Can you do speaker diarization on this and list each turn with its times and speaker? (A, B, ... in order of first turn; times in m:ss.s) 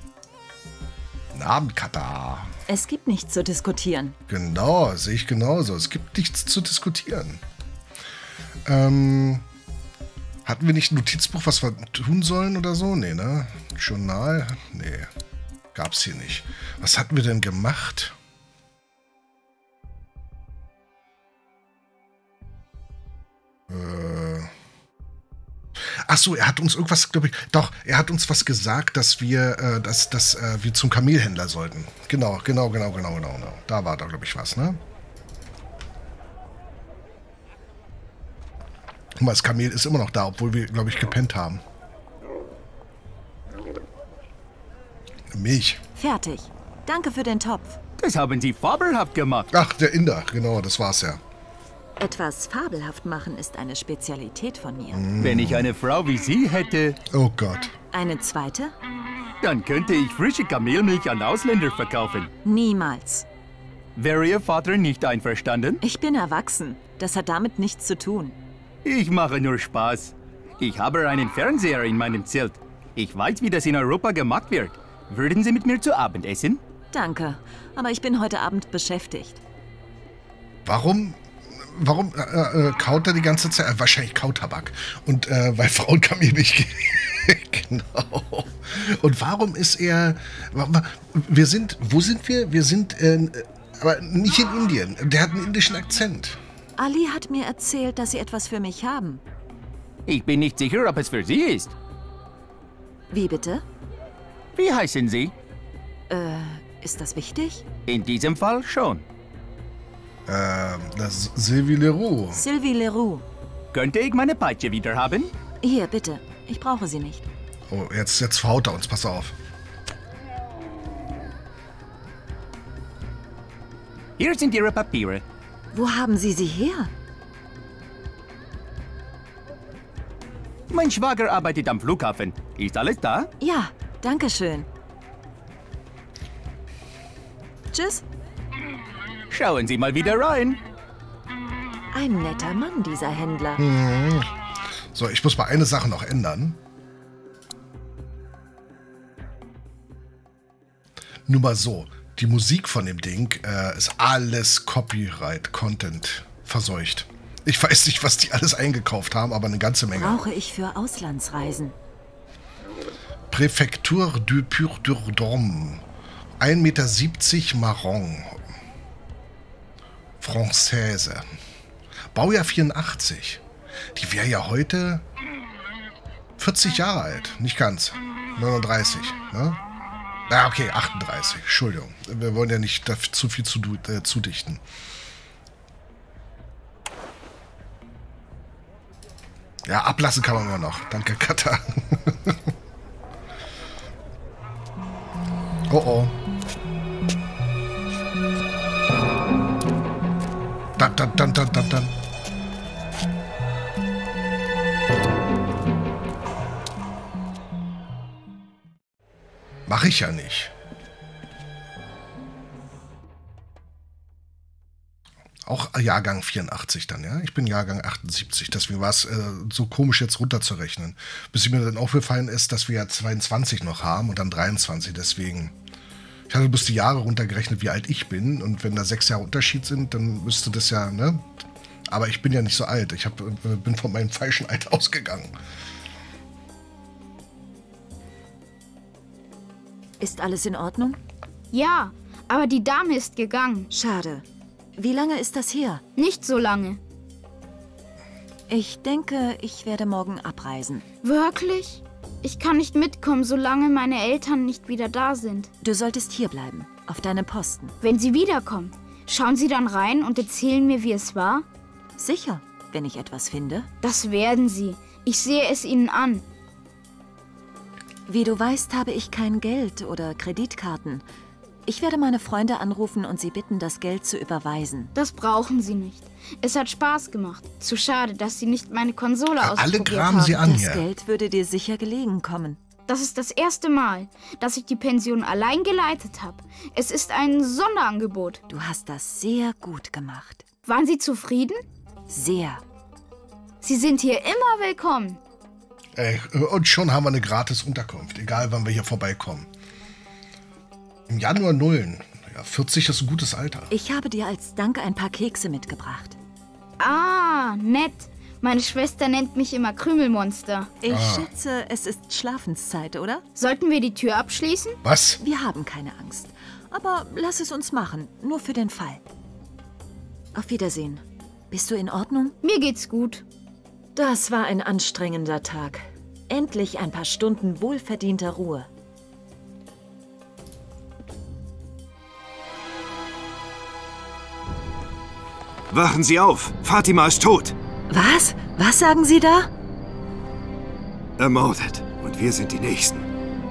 0:01.3-0:02.5 A
0:02.7-0:04.2 B
0:04.3-0:07.4 A
0:08.6-0:09.4 A
0:10.4-0:15.1 A
0:15.7-0:18.2 A
0:23.7-0:24.5 A
0:25.8-0:34.8 A
0:39.2-0:41.6 A
0:45.3-0:45.8 A
0:46.0-0:47.8 B
0:48.0-0:49.5 C
0:49.5-0:51.2 A
0:52.0-0:55.0 B
0:54.9-0:55.8 A
0:55.2-0:57.0 C
0:57.1-0:57.7 A
0:57.9-0:58.8 B
0:59.4-1:02.3 C
1:02.4-1:03.3 B
1:04.0-1:05.8 C
1:05.8-1:08.4 B
1:08.8-1:16.6 C
1:16.9-1:19.4 B
1:20.6-1:36.4 A
1:36.8-1:39.2 B
1:40.1-1:41.7 C
1:43.1-1:43.6 B
1:44.6-1:45.3 C
1:46.1-1:47.6 B
1:47.9-1:49.0 C
1:50.3-1:52.4 A
1:52.3-1:53.2 B
1:53.7-1:55.3 C
1:55.6-1:57.3 B
1:57.7-1:59.4 A
2:04.2-2:05.2 C
2:05.7-2:06.9 B
2:10.7-2:13.3 C
2:13.4-2:14.7 B
2:17.7-2:18.0 B
2:19.3-2:20.6 C
2:21.9-2:23.6 B
2:23.6-2:24.3 A
2:24.9-2:26.6 A
2:31.3-2:40.2 A
2:39.9-2:41.8 B
2:43.3-2:45.8 A
2:46.4-2:48.4 A
2:50.2-2:51.3 A
2:52.1-2:53.4 A
2:53.9-2:55.1 A
2:56.4-2:59.6 A
3:00.3-3:04.6 A
3:09.6-3:12.5 A
3:15.7-3:16.2 A
3:20.8-3:22.0 A
3:29.7-3:30.5 A
3:35.4-3:45.6 A
3:46.3-3:51.3 A
3:51.9-3:55.3 A
4:00.0-4:01.0 B
4:01.5-4:03.7 D
4:03.7-4:04.2 B
4:04.8-4:05.8 B
4:06.0-4:06.8 D
4:08.5-4:10.8 B
4:11.0-4:15.5 D
4:15.6-4:17.7 B
4:17.8-4:21.5 D
4:22.0-4:23.7 B
4:23.8-4:26.2 D
4:28.1-4:31.0 B
4:31.7-4:34.9 B
4:35.0-4:40.4 D
4:39.4-4:40.9 A
4:40.4-4:42.6 B
4:42.9-4:48.4 D
4:48.5-4:50.4 B
4:50.7-4:51.6 D
4:52.1-4:52.6 B
4:53.6-4:55.2 D
4:56.0-4:59.5 A
5:01.1-5:03.7 A
5:03.7-5:06.2 B
5:06.8-5:10.7 D
5:10.8-5:13.2 B
5:10.9-5:11.3 A
5:13.4-5:14.8 D
5:14.8-5:15.2 A
5:15.2-5:19.0 B
5:20.4-5:22.4 B
5:22.4-5:23.2 D
5:24.0-5:28.7 B
5:35.7-5:37.6 E
5:37.9-5:39.5 B
5:41.2-5:43.1 E